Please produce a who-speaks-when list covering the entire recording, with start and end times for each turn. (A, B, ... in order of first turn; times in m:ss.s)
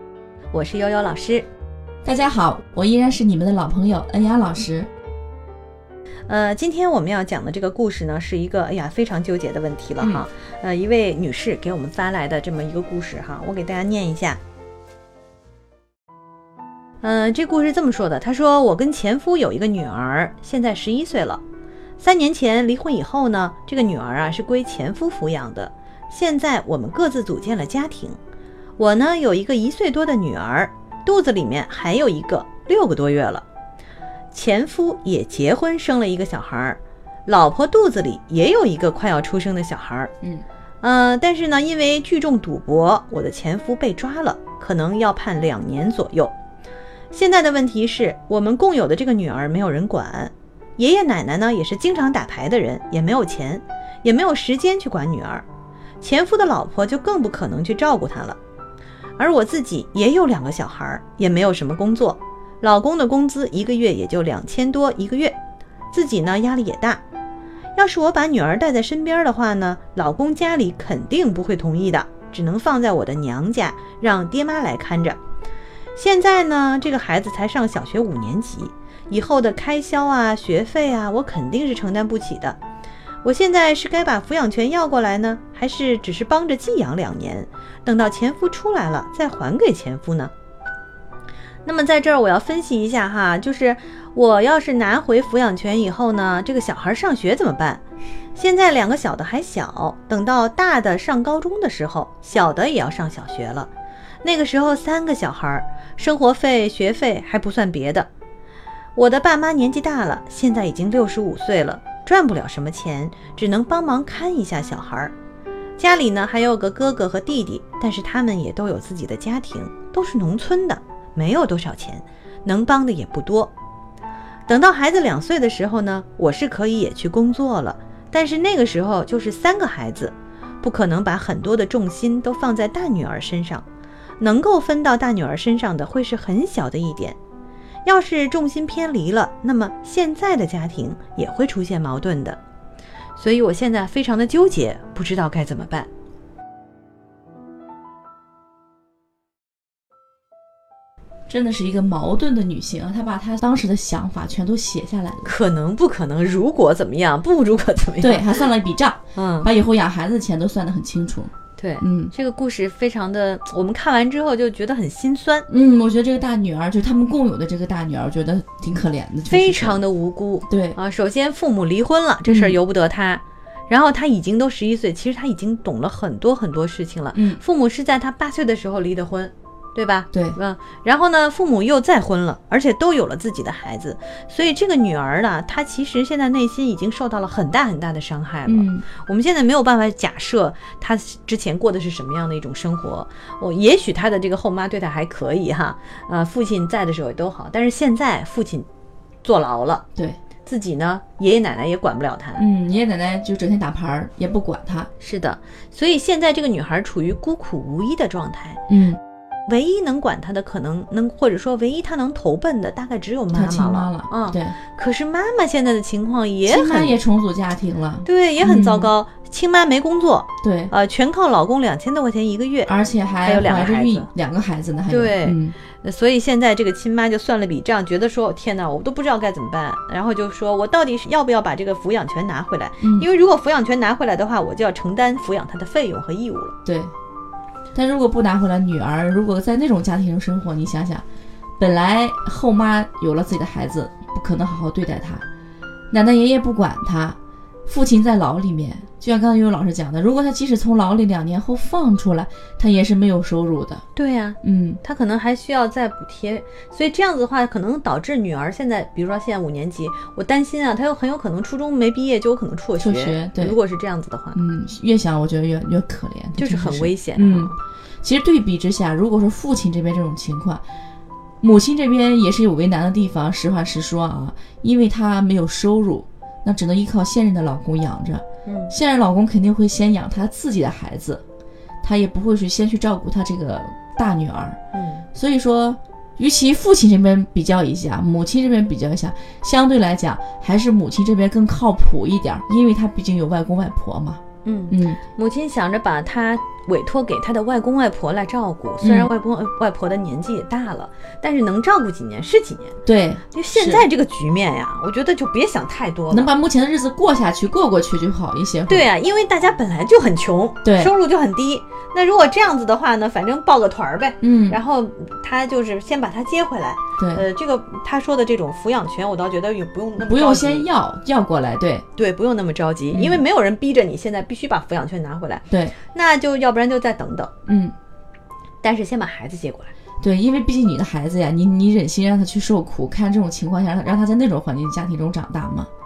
0:00.5-0:01.5 A
0:02.0-0:04.9 B
0:06.3-0:14.4 A
0:10.0-0:10.2 B
0:17.0-0:21.4 A
0:22.0-0:28.2 A
0:28.8-0:33.4 A
0:34.3-0:40.1 A
0:40.8-0:46.3 A
0:47.1-0:55.4 A
0:56.0-0:58.4 A
0:59.2-1:05.3 A
1:05.9-1:07.0 A
1:07.8-1:15.2 A
1:15.9-1:22.6 A
1:23.2-1:30.3 A
1:31.6-1:37.8 A
1:38.3-1:43.7 A
1:44.2-1:48.1 A
1:49.0-1:55.1 A
1:55.8-2:03.5 A
2:04.5-2:13.6 A
2:14.2-2:17.2 A
2:17.8-2:22.4 A
2:23.2-2:25.9 A
2:31.3-2:35.3 B
2:35.2-2:38.4 A
2:38.0-2:42.1 B
2:39.1-2:39.5 A
2:41.6-2:45.5 A
2:45.5-2:49.8 B
2:49.3-3:18.7 A
2:50.5-2:50.8 B
2:52.2-2:52.6 B
2:57.1-2:57.4 B
3:00.1-3:00.4 B
3:08.4-3:08.8 B
3:19.2-3:19.8 A
3:20.4-3:22.4 A
3:22.4-3:24.9 B
3:25.0-3:28.6 A
3:28.7-3:29.0 B
3:29.5-3:37.0 A
3:33.3-3:34.6 B
3:36.4-3:38.9 B
3:38.0-3:42.7 A
3:40.4-3:40.7 B
3:42.7-3:45.6 B
3:43.2-3:44.1 A
3:44.9-3:56.5 A
3:52.8-3:53.1 B
3:56.6-3:56.9 B
3:57.7-4:01.0 B
4:01.6-4:05.2 B
4:05.9-4:13.8 B
4:13.9-4:24.4 A
4:14.4-4:14.8 B
4:22.8-4:23.6 B
4:24.3-4:30.6 B
4:26.4-4:27.6 A
4:31.4-4:41.2 B
4:38.4-4:38.7 A
4:41.8-4:44.6 B
4:44.7-4:45.0 A
4:45.1-4:55.0 B
4:54.4-5:02.8 A
4:58.8-4:59.1 B
5:02.8-5:03.8 B
5:03.3-5:06.3 A
5:06.1-5:08.9 B
5:08.7-5:20.7 A
5:10.6-5:10.9 B
5:14.2-5:14.6 B
5:17.0-5:17.2 B
5:20.0-5:21.8 B
5:22.0-5:27.3 A
5:22.9-5:23.2 B
5:25.5-5:25.7 B
5:27.5-5:27.7 B
5:28.6-5:29.7 A
5:30.0-5:35.7 B